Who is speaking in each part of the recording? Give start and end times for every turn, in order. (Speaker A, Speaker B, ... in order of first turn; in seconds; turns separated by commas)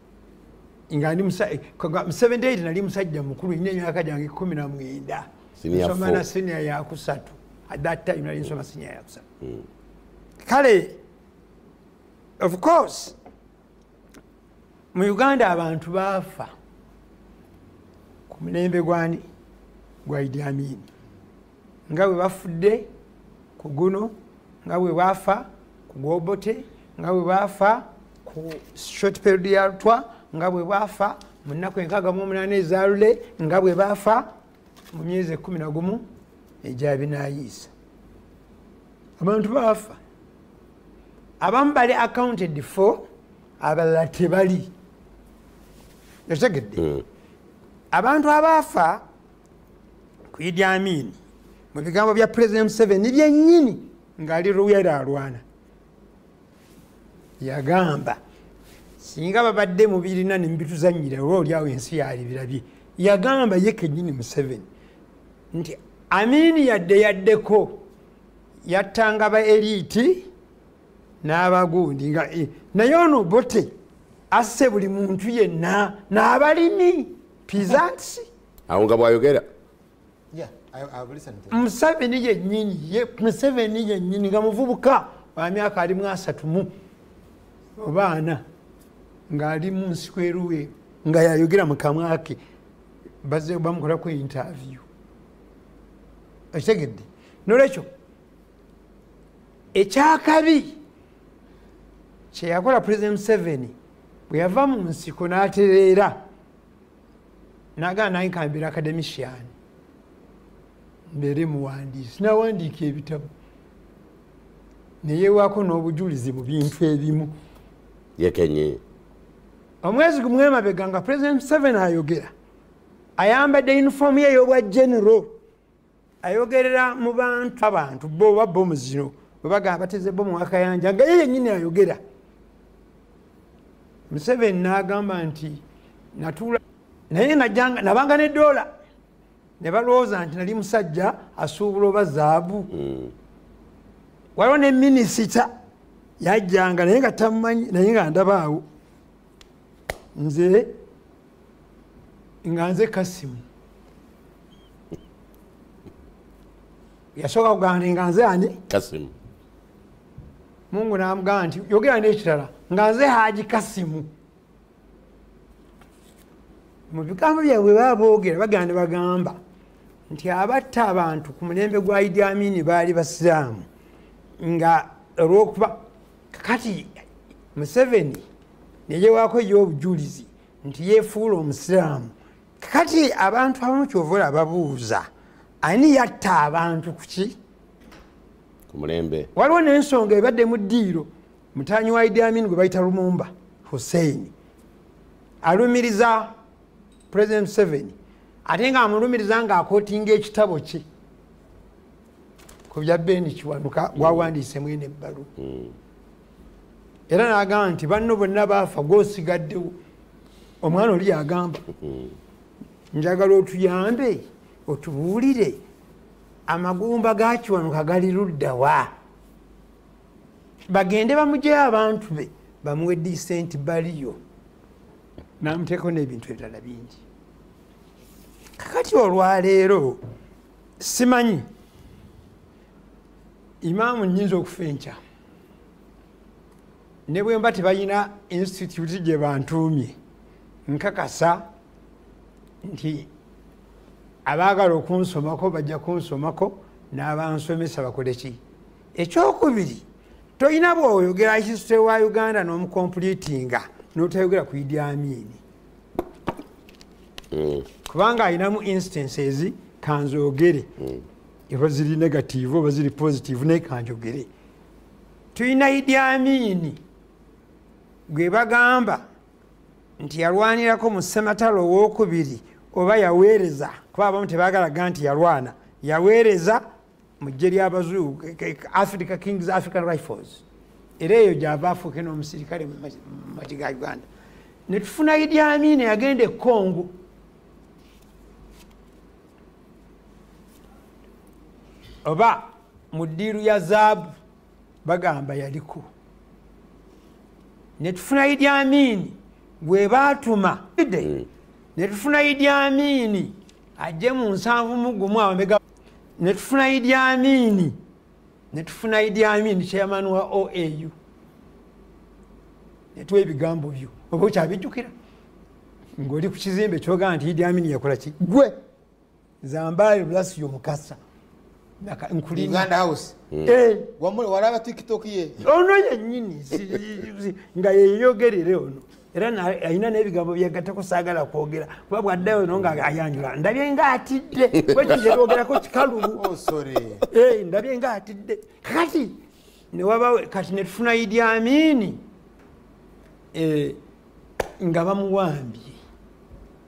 Speaker A: 0.9-9.2, Speaker B: 5.6-6.2, Speaker A: 10.4-11.0, Speaker A: 12.4-13.1, Speaker A: 14.9-16.5, Speaker A: 18.3-19.2, Speaker A: 20.1-20.9, Speaker A: 21.9-22.9, Speaker A: 23.6-24.1, Speaker A: 24.6-34.3, Speaker A: 34.9-36.0, Speaker A: 36.6-37.7, Speaker A: 39.2-40.0, Speaker A: 41.4-43.1, Speaker A: 43.6-44.7, Speaker A: 46.3-46.9, Speaker A: 47.9-49.0, Speaker A: 50.3-51.2, Speaker A: 51.7-55.4, Speaker A: 57.4-58.2, Speaker A: 59.0-64.7, Speaker A: 65.5-67.8, Speaker A: 68.7-70.3, Speaker A: 71.2-73.7, Speaker A: 74.3-78.3, Speaker B: 78.7-79.4, Speaker C: 80.3-81.6, Speaker A: 81.5-86.7, Speaker A: 87.8-88.4, Speaker A: 89.3-92.4, Speaker A: 93.2-94.8, Speaker A: 96.5-97.9, Speaker A: 99.7-100.8, Speaker A: 102.3-103.7, Speaker A: 104.3-106.2, Speaker A: 107.8-109.5, Speaker A: 111.1-113.3, Speaker A: 115.0-117.3, Speaker B: 118.2-118.8, Speaker A: 119.8-122.3, Speaker A: 123.2-125.4, Speaker A: 126.2-132.0, Speaker A: 134.1-135.6, Speaker A: 136.2-136.6, Speaker A: 137.1-138.7, Speaker A: 139.6-142.7, Speaker B: 142.8-143.1, Speaker A: 144.3-145.5, Speaker A: 146.2-148.6, Speaker A: 150.2-150.8, Speaker A: 152.4-153.4, Speaker A: 157.2-158.6, Speaker B: 158.7-159.1, Speaker A: 160.7-164.1, Speaker A: 166.9-169.4, Speaker A: 170.1-173.7, Speaker A: 174.4-177.0, Speaker A: 177.5-178.2, Speaker A: 178.9-185.1, Speaker A: 185.6-187.3, Speaker B: 188.7-189.3, Speaker A: 189.3-194.3, Speaker A: 195.4-196.3, Speaker A: 197.1-197.9, Speaker A: 198.4-200.8, Speaker A: 202.7-205.3, Speaker A: 207.1-209.8, Speaker A: 210.6-211.6, Speaker A: 212.9-215.6, Speaker A: 216.5-218.9, Speaker A: 220.7-224.2, Speaker A: 225.4-227.0, Speaker A: 228.6-230.0, Speaker A: 230.8-231.5, Speaker A: 233.6-235.0, Speaker A: 237.1-240.0, Speaker A: 240.7-241.5, Speaker A: 242.6-243.1, Speaker A: 244.2-248.4, Speaker A: 248.9-249.8, Speaker A: 250.4-255.4, Speaker B: 257.3-257.6, Speaker A: 257.9-260.7, Speaker A: 261.5-264.3, Speaker A: 265.3-266.8, Speaker A: 268.1-269.1, Speaker A: 270.0-276.7, Speaker A: 277.2-280.4, Speaker A: 281.0-284.0, Speaker A: 284.7-286.9, Speaker A: 292.0-294.1, Speaker A: 294.8-295.9, Speaker A: 297.8-301.1, Speaker A: 301.8-305.6, Speaker A: 306.2-307.8, Speaker A: 308.5-310.9, Speaker A: 312.9-314.9, Speaker A: 316.0-318.6, Speaker A: 319.4-321.0, Speaker A: 321.8-322.7, Speaker C: 322.3-323.1, Speaker A: 323.4-323.9, Speaker C: 324.0-325.4, Speaker A: 325.4-336.2, Speaker C: 336.1-337.0, Speaker A: 337.1-339.2, Speaker A: 339.7-342.0, Speaker A: 343.3-343.8, Speaker A: 344.6-345.8